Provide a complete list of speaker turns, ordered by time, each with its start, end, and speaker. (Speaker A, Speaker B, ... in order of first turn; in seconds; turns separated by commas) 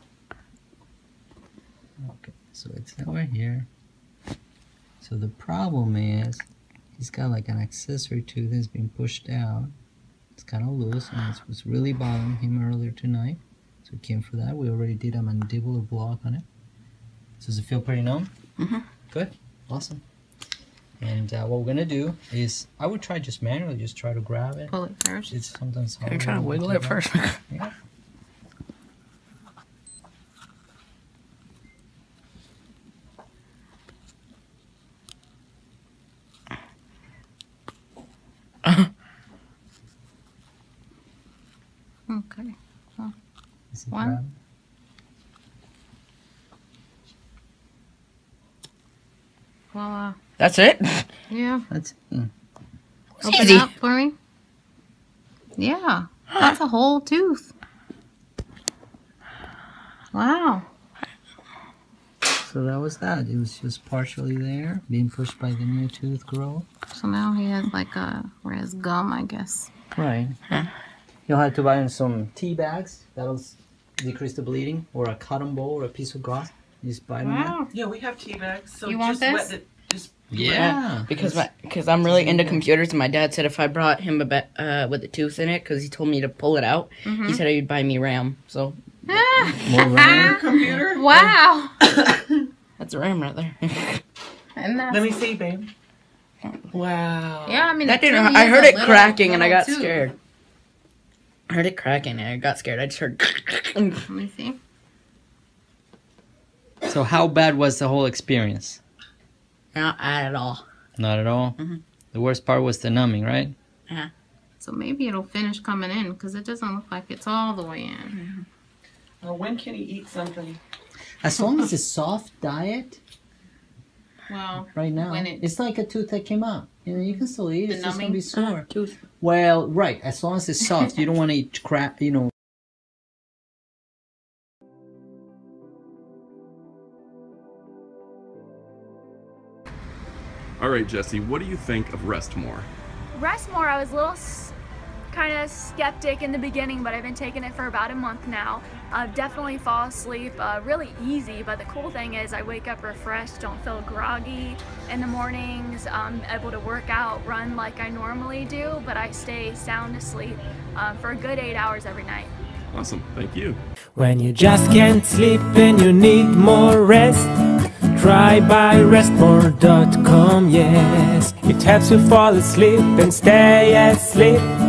Speaker A: 2.0-3.7, Speaker A: 5.0-6.4, Speaker A: 7.0-9.7, Speaker A: 10.3-16.4, Speaker A: 17.4-18.3, Speaker A: 19.1-20.0, Speaker A: 21.0-24.8, Speaker B: 24.7-25.3, Speaker A: 25.3-27.7, Speaker C: 26.0-27.4, Speaker B: 42.1-43.1, Speaker A: 43.7-44.3, Speaker B: 43.9-44.2, Speaker B: 49.7-50.2, Speaker C: 50.4-51.1, Speaker B: 51.3-51.6, Speaker A: 51.7-52.3, Speaker C: 53.2-53.7, Speaker B: 53.2-54.1, Speaker B: 55.6-57.5, Speaker B: 60.1-60.7, Speaker A: 62.4-66.7, Speaker B: 66.9-69.7, Speaker A: 69.9-70.4, Speaker A: 71.3-77.6, Speaker B: 77.2-77.7, Speaker D: 77.7-81.0, Speaker B: 78.8-79.6, Speaker A: 80.3-81.4, Speaker C: 80.5-88.8, Speaker A: 82.1-82.5, Speaker B: 87.0-87.4, Speaker B: 89.1-91.7, Speaker A: 89.6-90.4, Speaker D: 90.0-91.3, Speaker D: 91.8-92.4, Speaker C: 92.8-94.0, Speaker B: 94.5-95.2, Speaker D: 94.9-95.7, Speaker D: 96.7-97.7, Speaker B: 97.4-100.0, Speaker C: 97.8-100.1, Speaker C: 101.5-104.0, Speaker B: 104.1-104.6, Speaker A: 106.8-108.8, Speaker C: 109.7-110.6, Speaker A: 111.0-111.6, Speaker A: 112.1-113.5, Speaker B: 114.6-118.2, Speaker C: 118.1-118.4, Speaker D: 119.2-120.6, Speaker A: 121.2-123.0, Speaker B: 124.3-125.4, Speaker A: 124.7-128.7, Speaker B: 127.7-128.2, Speaker C: 128.3-128.9, Speaker A: 129.2-132.3, Speaker E: 140.6-142.7, Speaker F: 143.2-144.5, Speaker F: 145.1-162.3, Speaker E: 162.7-163.6, Speaker G: 163.9-167.3, Speaker G: 167.9-174.5